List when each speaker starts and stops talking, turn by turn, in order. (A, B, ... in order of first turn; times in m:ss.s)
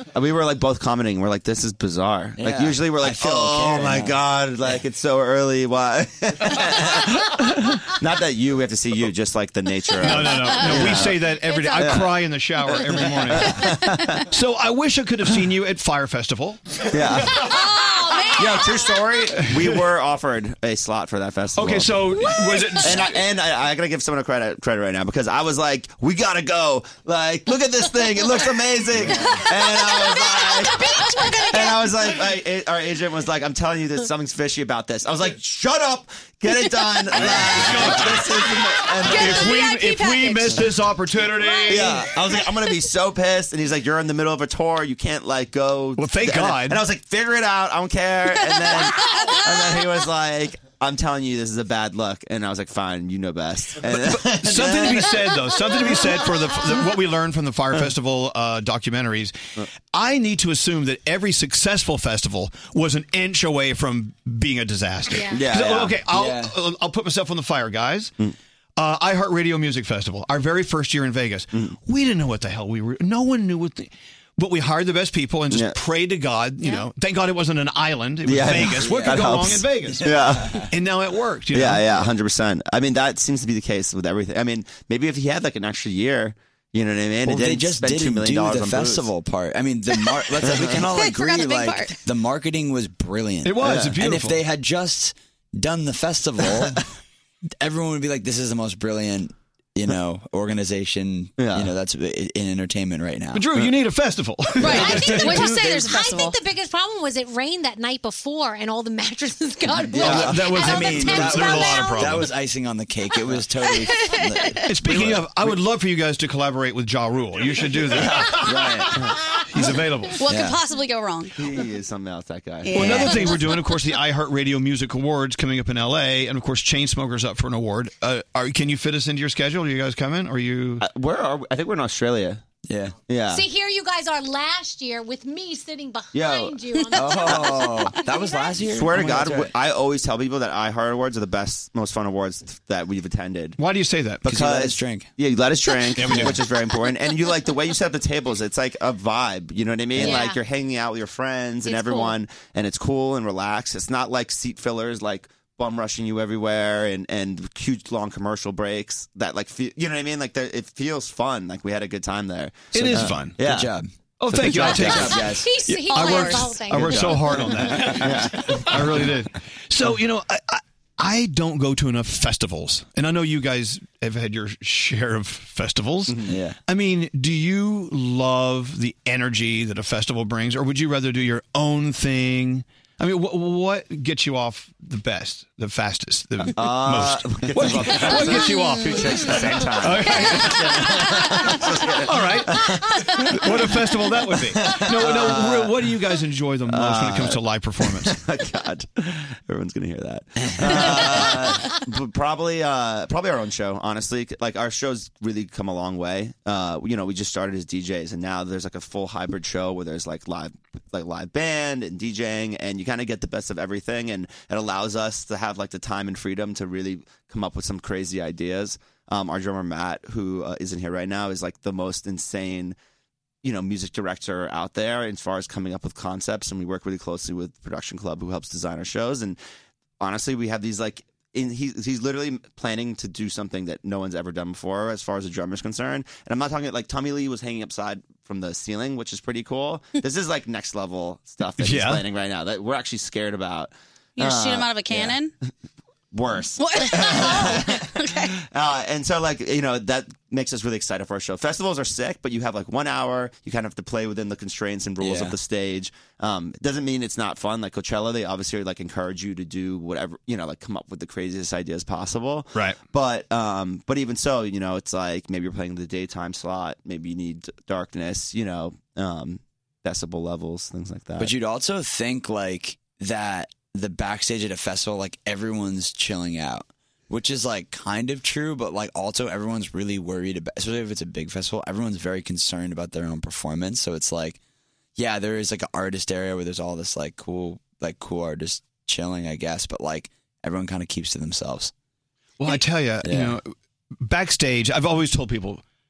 0:00.1-0:11.2 A
0:02.4-0:04.8 B
0:10.0-0:13.7 C
0:10.0-0:12.0 D
0:11.7-0:14.2 A
0:13.4-0:13.7 D
0:14.3-0:17.5 C
0:16.9-0:17.4 A
0:17.4-0:18.9 D
0:18.3-0:22.1 A
0:19.4-0:19.8 C
0:21.5-0:23.2 C
0:22.1-0:23.0 D
0:22.8-0:30.9 A
0:28.9-0:29.4 B
0:29.6-0:32.0 D
0:31.5-0:39.7 A
0:37.1-0:38.4 C
0:39.0-0:40.6 E
0:39.0-0:42.0 C
0:39.5-0:39.8 D
0:41.6-0:41.9 E
0:41.7-0:55.2 A
0:46.0-0:46.8 C
0:48.4-0:48.8 E
0:53.8-1:08.1 C
1:05.1-1:05.5 D
1:05.3-1:06.0 A
1:06.1-1:06.5 B
1:08.8-1:20.1 C
1:15.5-1:15.8 A
1:18.2-1:20.5 A
1:18.6-1:20.7 B
1:20.6-1:21.8 C
1:21.5-1:29.1 A
1:27.2-1:36.8 B
1:30.4-1:30.8 A
1:30.8-1:32.0 E
1:33.4-1:34.4 C
1:37.6-1:43.7 B
1:41.4-1:41.7 A
1:43.3-1:45.8 C
1:44.6-1:46.4 E
1:44.6-1:52.3 D
1:49.8-1:55.6 B
1:50.0-1:52.3 C
1:53.8-1:54.6 E
1:54.6-1:58.6 C
1:58.0-1:58.3 A
1:58.2-1:59.0 B
1:59.5-2:00.2 C
2:00.2-2:01.4 E
2:00.2-2:00.6 B
2:01.3-2:03.3 A
2:02.6-2:03.7 E
2:02.7-2:10.8 C
2:10.8-2:12.4 A
2:12.6-2:13.0 B
2:13.1-2:13.4 A
2:13.3-2:18.6 D
2:16.1-2:16.6 A
2:16.9-2:19.5 B
2:18.6-2:23.6 A
2:23.6-2:24.3 C
2:24.2-2:43.7 A
2:24.2-2:25.1 B
2:26.0-2:26.4 C
2:30.0-2:30.4 D
2:31.6-2:32.2 D
2:42.7-2:43.4 C
2:42.8-2:45.5 B
2:44.2-3:11.1 C
2:44.3-2:45.4 A
2:44.7-2:47.8 D
2:45.9-2:46.6 E
2:47.4-2:48.0 B
2:47.8-2:49.0 A
2:56.1-2:56.3 A
2:56.2-2:56.6 B
3:06.5-3:13.8 A
3:12.0-3:18.2 C
3:14.3-3:15.9 A
3:16.7-3:42.8 A
3:20.4-3:21.2 B
3:43.4-3:49.4 A
3:50.0-4:05.2 A
4:01.6-4:02.0 C
4:04.2-4:05.3 E
4:06.1-4:31.3 A
4:06.6-4:08.3 E
4:15.0-4:15.4 B
4:22.5-4:22.8 C
4:31.2-4:44.4 B
4:45.0-4:51.7 B
4:52.4-4:55.6 C
4:53.0-4:53.4 B